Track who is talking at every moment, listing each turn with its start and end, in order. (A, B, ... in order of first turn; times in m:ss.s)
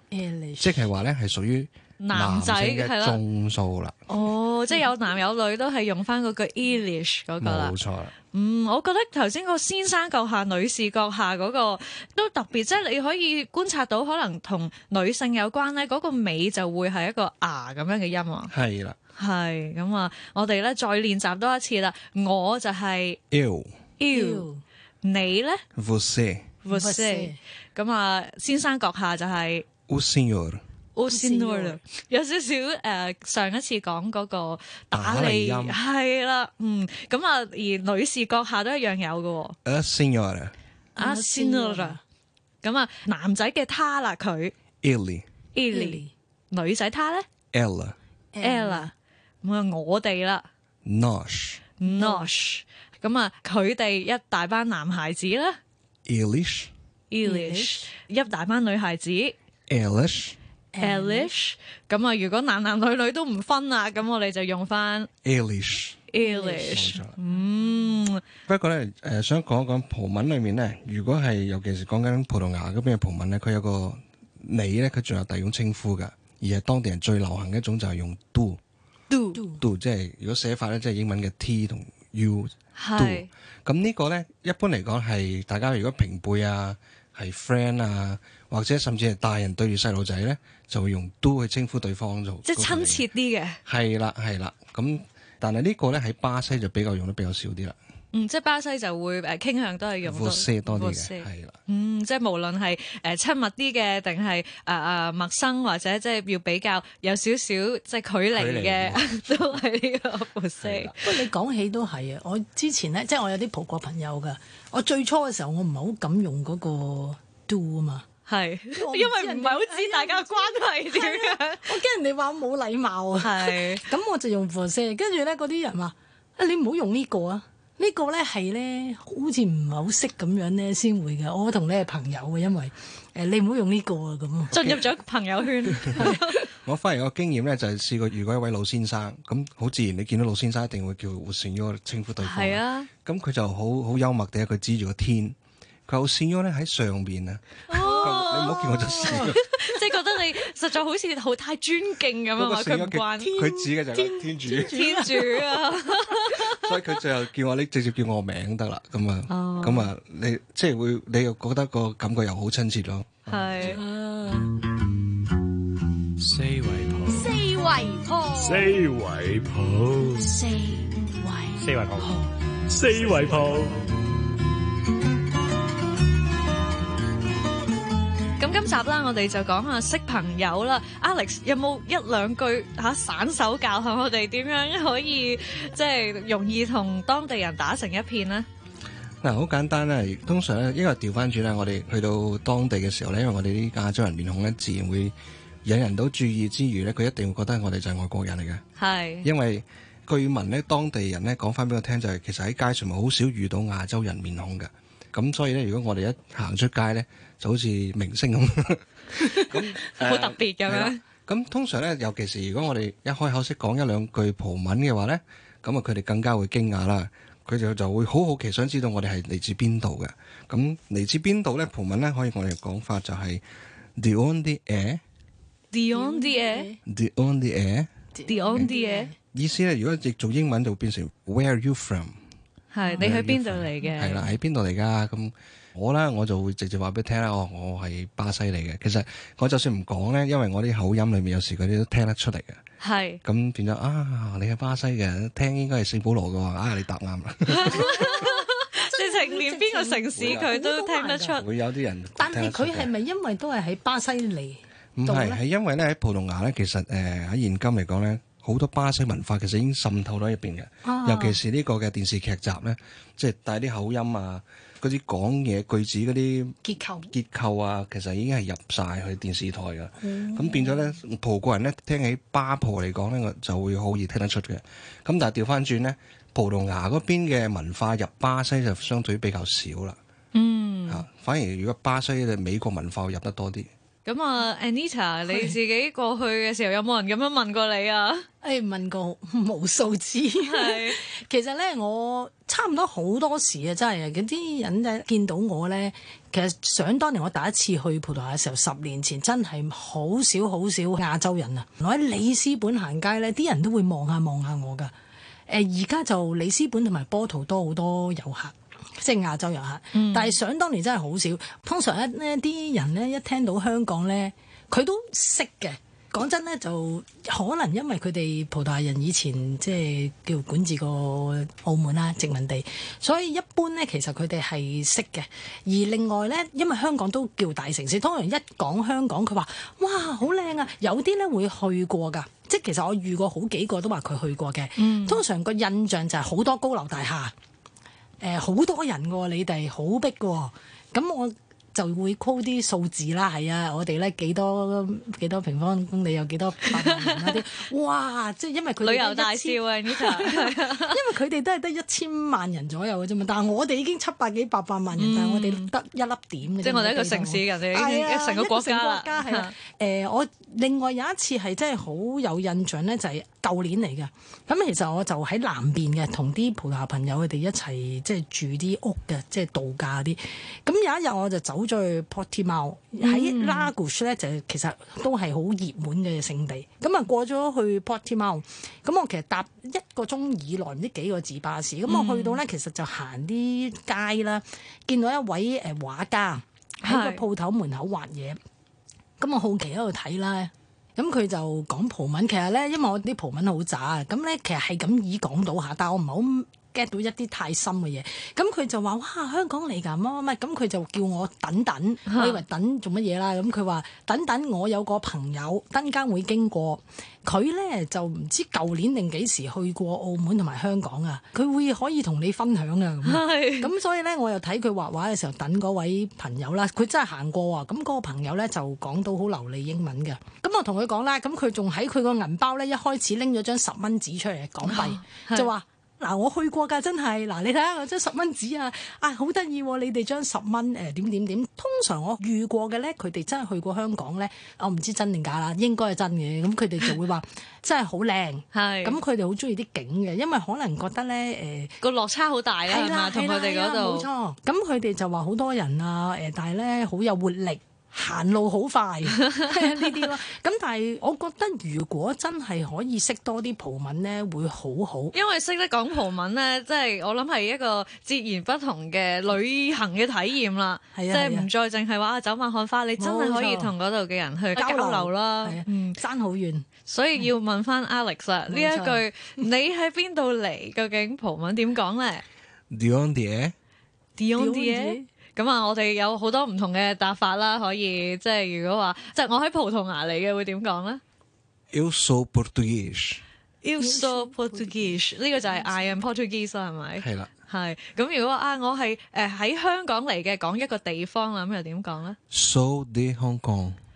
0:00.1-0:00.9 A
0:00.6-0:04.0 B
0:02.0-0:03.2 C
0:04.1-0:07.7 C
0:04.1-0:04.8 A
0:07.4-0:08.1 B
0:08.3-0:18.5 C
0:18.5-0:19.0 B
0:19.2-0:23.2 C
0:23.3-0:23.7 B
0:24.0-0:24.5 C
0:24.1-0:24.6 A
0:25.0-0:25.6 C
0:25.8-0:26.6 B
0:26.6-0:29.6 C
0:26.7-0:27.4 A
0:29.9-0:30.6 B
0:30.9-0:39.6 C
0:31.1-0:31.8 A
0:34.9-0:35.8 B
0:39.6-0:40.5 B
0:41.0-0:42.0 C
0:41.0-0:42.0 A
0:42.6-0:44.5 C
0:44.8-0:45.2 B
0:45.5-0:47.2 C
0:45.7-0:46.1 A
0:47.5-0:48.0 B
0:48.3-0:48.9 A
0:48.4-0:48.9 C
0:49.4-0:50.4 C
0:50.8-0:51.6 B
0:51.8-0:55.6 C
0:51.8-0:52.3 A
0:56.0-0:56.7 B
0:57.1-0:59.4 C
0:57.2-0:57.8 A
0:59.7-1:00.4 B
1:00.7-1:01.3 A
1:00.8-1:05.1 C
1:05.2-1:06.1 B
1:06.1-1:08.2 C
1:06.2-1:07.9 A
1:06.6-1:07.2 B
1:08.5-1:18.6 B
1:19.1-1:19.4 C
1:19.3-1:19.6 A
1:19.6-1:33.0 B
1:22.8-1:23.3 C
1:32.4-1:33.6 C
1:33.6-1:37.8 B
1:38.1-1:50.9 C
1:40.0-1:41.6 B
1:48.3-1:49.1 B
1:50.6-1:50.9 B
1:51.0-1:58.0 A
1:58.3-2:01.7 C
1:58.8-2:14.6 A
2:03.2-2:03.8 C
2:14.5-2:16.4 C
2:14.5-2:14.8 B
2:15.7-2:25.4 B
2:22.2-2:22.9 C
2:25.9-2:29.4 B
2:27.7-2:33.3 C
2:27.7-2:29.3 A
2:32.4-2:34.9 B
2:33.2-2:35.8 A
2:34.5-2:36.5 C
2:36.6-2:43.8 B
2:39.3-2:39.9 C
2:43.3-2:43.8 C
2:43.7-2:44.5 A
2:46.2-2:47.4 D
2:47.0-2:48.8 E
2:48.4-2:50.2 D
2:50.1-2:52.1 E
2:51.6-2:52.1 D
2:52.7-2:53.8 D
2:58.4-3:08.5 C
3:09.2-3:18.6 B
3:18.8-3:19.3 C
3:19.2-3:43.4 B
3:29.8-3:31.0 C
3:44.0-3:45.0 B
3:45.7-3:46.7 C
3:45.9-3:46.8 A
3:46.8-3:47.9 B
3:48.1-3:49.1 A
3:48.3-3:49.1 C
3:49.3-3:52.2 B
3:52.7-3:54.2 C
3:52.8-3:53.1 A
3:53.0-4:02.6 B
4:02.8-4:03.2 C
4:03.2-4:08.1 B
4:07.5-4:11.4 C
4:07.7-4:11.4 A
4:10.2-4:10.6 B
4:11.3-4:12.9 B
4:12.2-4:15.4 A
4:14.9-4:26.6 B
4:20.8-4:21.4 A
4:26.6-4:27.1 A
4:27.1-4:40.0 B
4:30.0-4:30.8 A
4:40.3-4:41.0 C
4:40.9-4:43.7 B
4:44.0-4:48.2 C
4:45.3-4:45.6 A
4:48.4-5:04.9 A
4:50.4-4:51.0 C
5:05.5-5:37.3 A
5:09.9-5:10.4 C
5:34.8-5:35.2 C
5:38.2-6:28.4 A
5:46.7-5:47.4 C
5:48.8-5:51.0 C
5:55.0-5:55.7 C
5:56.6-5:59.5 C
6:13.0-6:13.7 C
6:21.9-6:22.4 C
6:26.8-6:27.2 C
6:29.2-7:21.7 A
6:42.1-6:42.4 C
6:53.0-6:53.7 C
7:04.6-7:05.5 C
7:18.5-7:19.0 C
7:21.8-7:24.1 C
7:22.7-7:35.1 A
7:29.4-7:29.8 C
7:35.1-7:46.0 C
7:40.9-7:41.5 A
7:43.0-7:43.7 A
7:44.5-7:47.3 A
7:46.8-7:52.2 C
7:48.5-7:49.0 A
7:52.7-7:53.5 B
7:54.2-8:01.0 C
7:54.4-7:55.1 A
8:01.7-8:03.2 B
8:03.6-8:12.2 C
8:03.8-8:06.0 A
8:07.0-8:07.3 B
8:12.3-8:13.8 B